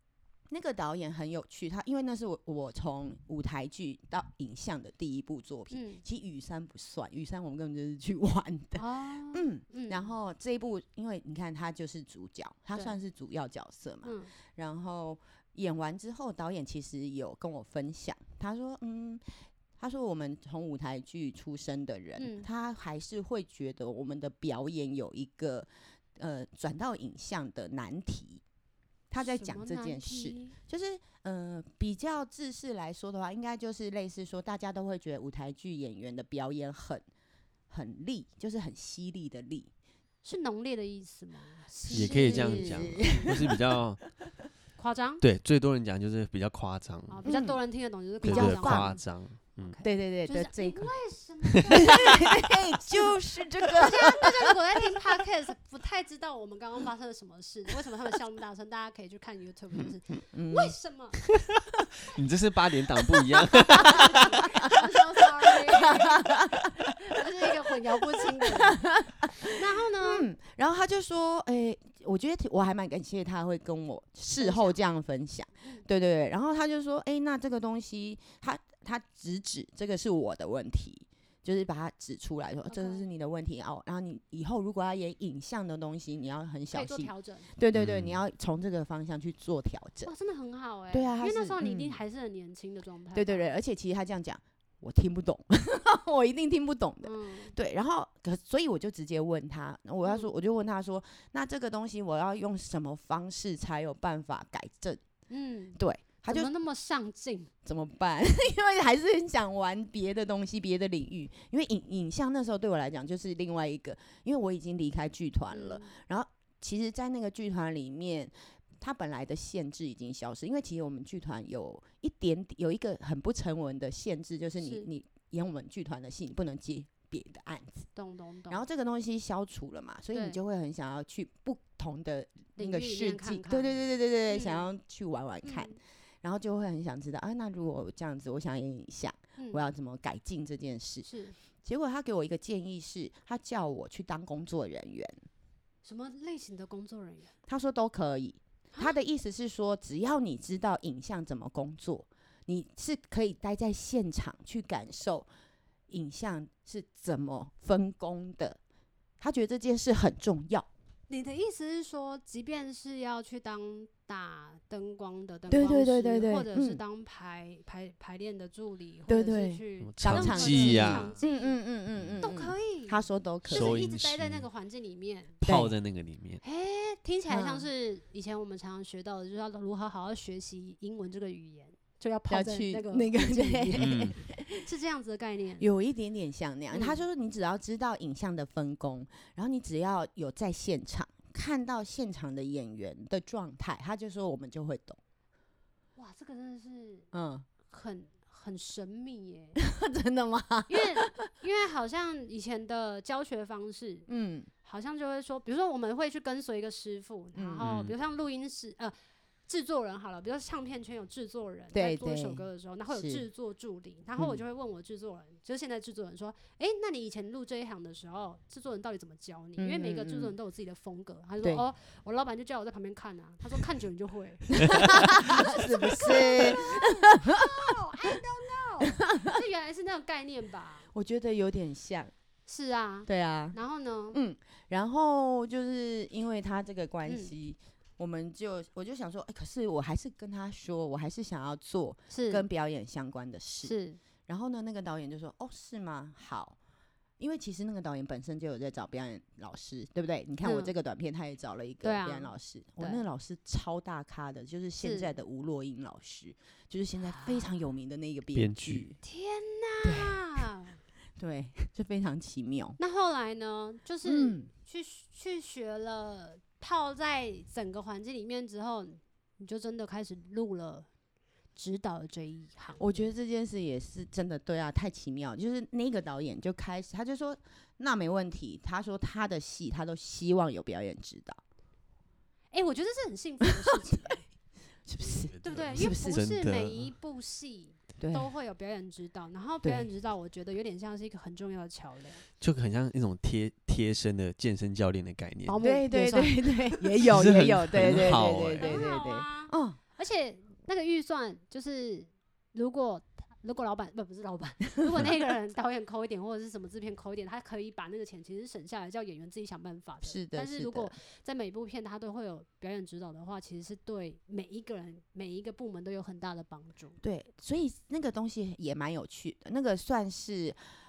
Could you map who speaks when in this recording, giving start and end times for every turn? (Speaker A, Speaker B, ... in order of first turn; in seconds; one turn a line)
Speaker A: 0.5-19.2
Speaker B: 5.7-6.0
Speaker B: 8.8-10.1
Speaker B: 14.0-14.3
Speaker A: 19.8-28.4
Speaker B: 22.2-22.5
Speaker A: 29.1-37.1
Speaker B: 29.2-30.6
Speaker A: 37.7-39.7
Speaker B: 40.2-43.3
Speaker A: 41.8-43.6
Speaker C: 41.9-44.0
Speaker B: 44.8-45.2
Speaker C: 45.2-47.2
Speaker B: 47.1-49.0
Speaker A: 47.2-47.6
Speaker A: 48.2-49.0
Speaker C: 48.2-49.8
Speaker B: 49.6-53.1
Speaker A: 49.8-50.9
Speaker A: 51.7-54.5
Speaker B: 53.7-61.2
Speaker A: 60.3-60.8
Speaker C: 62.1-64.4
Speaker A: 63.1-64.0
Speaker B: 63.7-68.9
Speaker A: 65.7-66.8
Speaker A: 67.4-90.1
Speaker B: 69.4-70.3
Speaker B: 74.4-74.8
Speaker B: 82.7-83.0
Speaker B: 86.7-87.5
Speaker C: 87.7-88.2
Speaker B: 90.0-93.5
Speaker A: 90.9-92.0
Speaker A: 93.1-105.0
Speaker B: 97.0-97.5
Speaker B: 100.0-100.3
Speaker B: 105.3-107.5
Speaker A: 105.8-106.5
Speaker A: 107.7-127.9
Speaker B: 115.5-115.9
Speaker B: 124.6-124.9
Speaker B: 128.0-128.6
Speaker A: 128.5-141.1
Speaker B: 130.1-130.4
Speaker B: 132.6-133.8
Speaker B: 134.3-134.7
Speaker B: 135.4-135.8
Speaker B: 139.4-139.7
Speaker B: 141.1-141.4
Speaker A: 141.6-145.2
Speaker B: 145.8-147.3
Speaker A: 147.5-155.3
Speaker A: 155.9-158.6
Speaker A: 159.2-160.7
Speaker B: 161.1-171.6
Speaker A: 165.5-166.8
Speaker A: 169.1-173.8
Speaker C: 169.8-171.2
Speaker C: 171.9-172.3
Speaker B: 172.2-175.4
Speaker C: 173.5-174.5
Speaker A: 175.4-175.7
Speaker C: 175.4-176.4
Speaker B: 176.4-185.7
Speaker A: 177.3-177.7
Speaker A: 182.3-184.6
Speaker C: 183.8-184.1
Speaker A: 185.6-195.0
Speaker B: 186.7-187.0
Speaker B: 196.0-197.1
Speaker A: 197.1-197.5
Speaker B: 197.7-199.6
Speaker A: 199.6-201.2
Speaker B: 200.7-204.1
Speaker A: 204.1-204.5
Speaker B: 204.6-208.9
Speaker A: 207.3-207.7
Speaker C: 207.6-207.9
Speaker B: 209.5-230.9
Speaker A: 211.7-213.3
Speaker A: 219.6-220.3
Speaker A: 224.6-227.5
Speaker A: 229.1-229.4
Speaker A: 230.9-232.1
Speaker B: 232.5-234.2
Speaker A: 233.1-233.6
Speaker A: 234.1-243.7
Speaker B: 237.1-237.3
Speaker B: 242.1-242.5
Speaker B: 243.6-244.0
Speaker A: 244.3-246.6
Speaker A: 247.2-259.0
Speaker B: 250.4-250.7
Speaker B: 251.8-253.0
Speaker B: 254.8-255.1
Speaker B: 257.1-257.5
Speaker C: 258.3-258.9
Speaker B: 259.0-260.8
Speaker A: 259.8-260.5
Speaker A: 261.2-262.8
Speaker B: 262.8-270.9
Speaker A: 264.1-264.5
Speaker B: 271.6-273.1
Speaker A: 272.8-281.4
Speaker B: 282.5-284.2
Speaker A: 283.6-284.2
Speaker A: 284.9-286.2
Speaker C: 285.0-286.9
Speaker B: 285.4-292.2
Speaker A: 288.0-288.3
Speaker A: 289.6-289.9
Speaker C: 292.4-295.6
Speaker B: 295.5-296.9
Speaker A: 295.6-299.8
Speaker C: 297.1-298.8
Speaker B: 298.6-317.0
Speaker A: 310.0-311.0
Speaker A: 317.0-320.6